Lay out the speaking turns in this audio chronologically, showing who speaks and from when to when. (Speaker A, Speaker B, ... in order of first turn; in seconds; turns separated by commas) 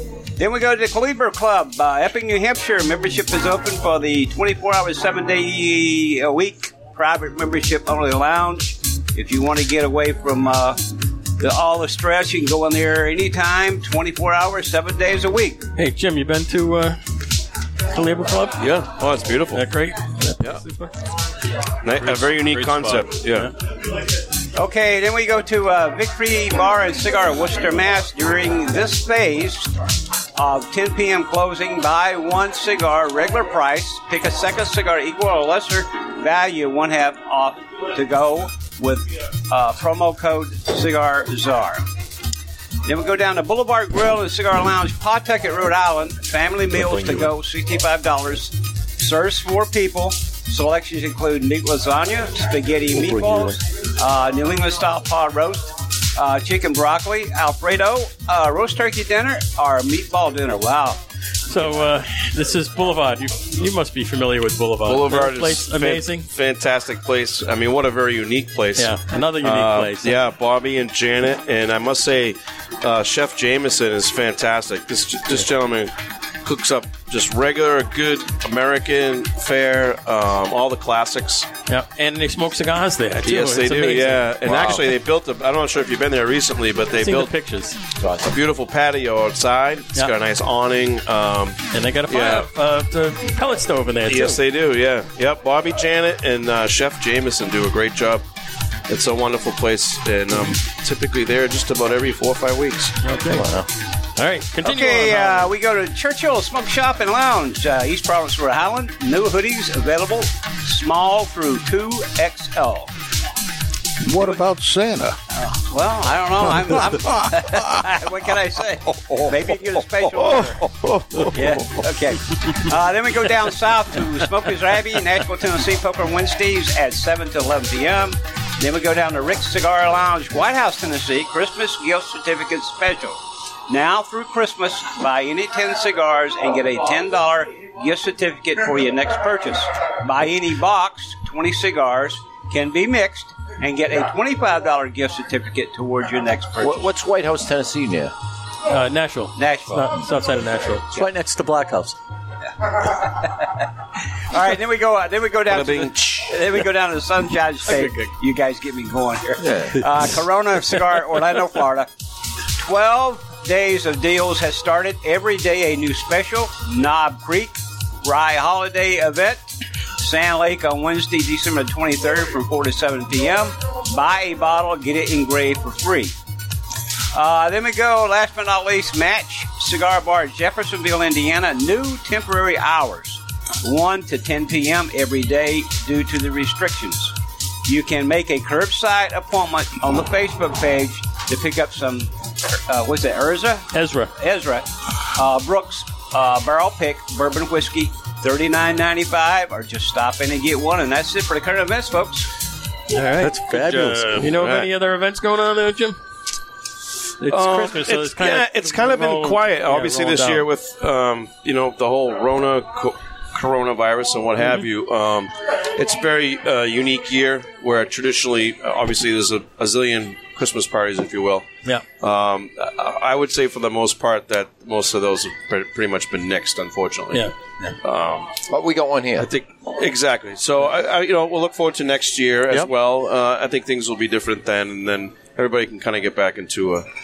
Speaker A: 0.3-15.7, Speaker B: 15.8-17.0, Speaker B: 17.9-18.6, Speaker C: 18.6-19.6, Speaker B: 19.5-20.9, Speaker C: 21.8-23.5, Speaker B: 22.5-23.5, Speaker A: 24.5-29.7, Speaker A: 30.3-41.8, Speaker A: 42.8-61.0, Speaker D: 46.8-47.3, Speaker D: 52.9-53.6, Speaker B: 61.5-66.3, Speaker C: 64.8-81.5, Speaker B: 68.8-70.2, Speaker B: 81.7-84.3, Speaker C: 83.2-87.3, Speaker E: 84.4-84.8, Speaker B: 87.0-87.8, Speaker E: 88.0-88.3, Speaker C: 88.2-92.5, Speaker B: 91.7-94.4, Speaker C: 94.1-98.2, Speaker C: 98.9-103.0, Speaker B: 103.0-103.5, Speaker D: 103.3-103.7, Speaker B: 104.2-105.5, Speaker A: 104.6-112.9, Speaker F: 114.0-115.2, Speaker A: 115.3-120.6, Speaker F: 116.4-117.9, Speaker F: 118.9-119.4, Speaker C: 120.2-121.2, Speaker A: 121.3-146.9, Speaker E: 146.6-148.1, Speaker B: 148.7-150.9, Speaker A: 149.3-150.1, Speaker D: 150.9-152.0, Speaker A: 152.6-153.7, Speaker A: 154.3-161.9, Speaker C: 155.5-156.3, Speaker B: 157.7-158.1, Speaker E: 159.4-159.8, Speaker A: 162.6-169.4, Speaker A: 170.0-176.1, Speaker A: 177.1-187.1, Speaker A: 187.7-202.3, Speaker B: 193.7-194.1, Speaker B: 202.9-206.0, Speaker D: 203.2-204.3, Speaker C: 204.3-204.7, Speaker B: 207.2-210.4, Speaker C: 207.3-221.5, Speaker C: 222.0-227.3, Speaker B: 227.1-227.7, Speaker C: 227.8-228.4, Speaker E: 228.5-229.3, Speaker C: 229.2-236.8